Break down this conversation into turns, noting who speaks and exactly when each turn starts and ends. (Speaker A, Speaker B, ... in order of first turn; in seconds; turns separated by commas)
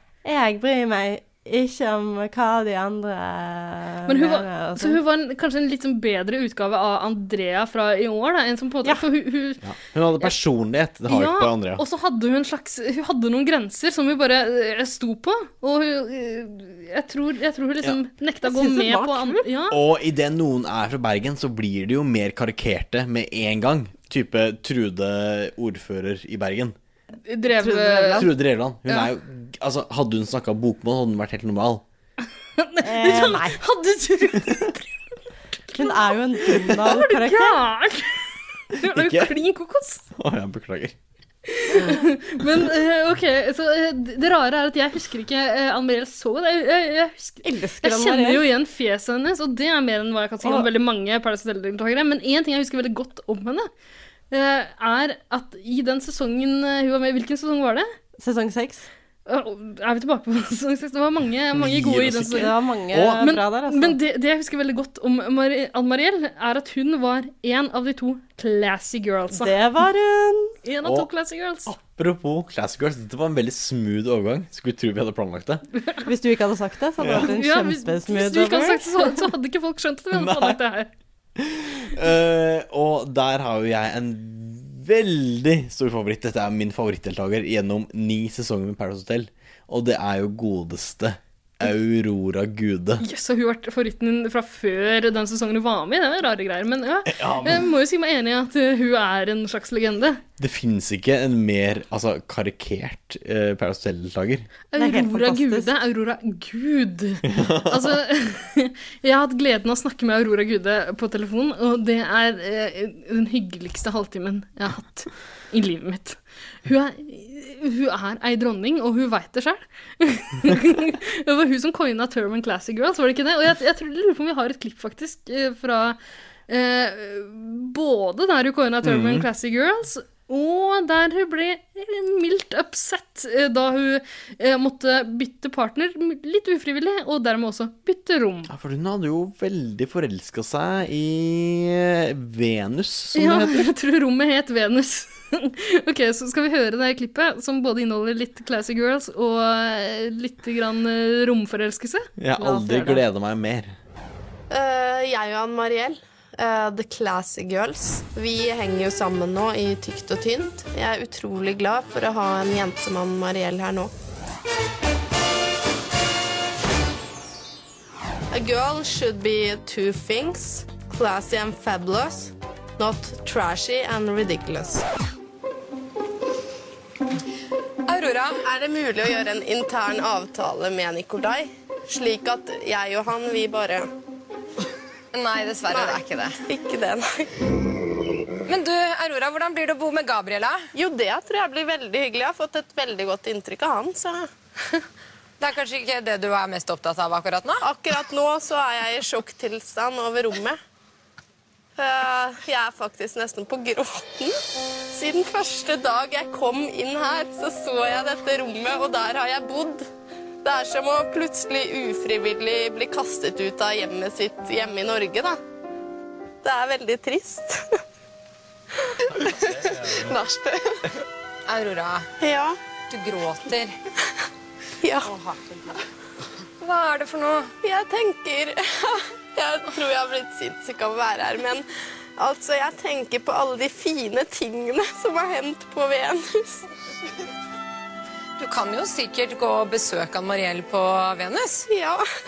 Speaker A: 0.2-5.0, Speaker B: 4.1-9.6, Speaker C: 9.6-11.8, Speaker B: 11.1-19.8, Speaker A: 18.4-19.5, Speaker C: 19.7-26.7, Speaker B: 27.3-28.3, Speaker A: 27.6-28.3, Speaker C: 28.2-31.8, Speaker B: 32.6-34.9, Speaker A: 32.8-33.6, Speaker A: 35.7-37.6, Speaker B: 35.7-38.2, Speaker B: 38.8-40.1, Speaker C: 38.8-39.3, Speaker C: 40.2-41.0, Speaker B: 41.5-53.7, Speaker A: 47.4-48.5, Speaker A: 50.4-50.7, Speaker B: 54.3-57.9, Speaker A: 58.2-58.9, Speaker B: 59.3-62.5, Speaker C: 61.5-63.2, Speaker A: 62.3-64.0, Speaker B: 63.1-69.6, Speaker A: 69.3-70.5, Speaker B: 70.7-71.7, Speaker C: 70.8-71.1, Speaker C: 71.7-75.7, Speaker A: 76.0-79.3, Speaker C: 77.0-77.3, Speaker B: 77.1-80.9, Speaker C: 80.1-80.6, Speaker C: 81.4-93.0, Speaker B: 93.0-100.2, Speaker C: 97.1-97.7, Speaker C: 100.4-104.5, Speaker B: 104.7-126.0, Speaker A: 104.8-105.7, Speaker C: 107.2-108.0, Speaker B: 126.5-138.5, Speaker C: 128.8-129.3, Speaker C: 138.5-143.7, Speaker B: 143.2-152.1, Speaker C: 152.2-153.8, Speaker A: 152.4-153.0, Speaker D: 154.5-163.9, Speaker D: 168.3-174.8, Speaker E: 177.9-178.4, Speaker D: 178.4-183.9, Speaker E: 185.1-186.4, Speaker D: 185.7-187.3, Speaker E: 188.5-190.7, Speaker D: 190.7-194.3, Speaker E: 195.4-197.6, Speaker D: 197.6-200.6, Speaker D: 201.8-204.4, Speaker D: 204.9-209.9, Speaker D: 210.4-215.4, Speaker D: 216.4-217.8, Speaker D: 219.1-220.6, Speaker E: 221.5-222.1, Speaker D: 222.2-222.6, Speaker E: 222.9-223.8, Speaker D: 224.8-225.1, Speaker E: 226.6-227.5, Speaker D: 227.6-231.7, Speaker D: 232.2-236.7, Speaker E: 238.4-241.7, Speaker D: 241.7-242.0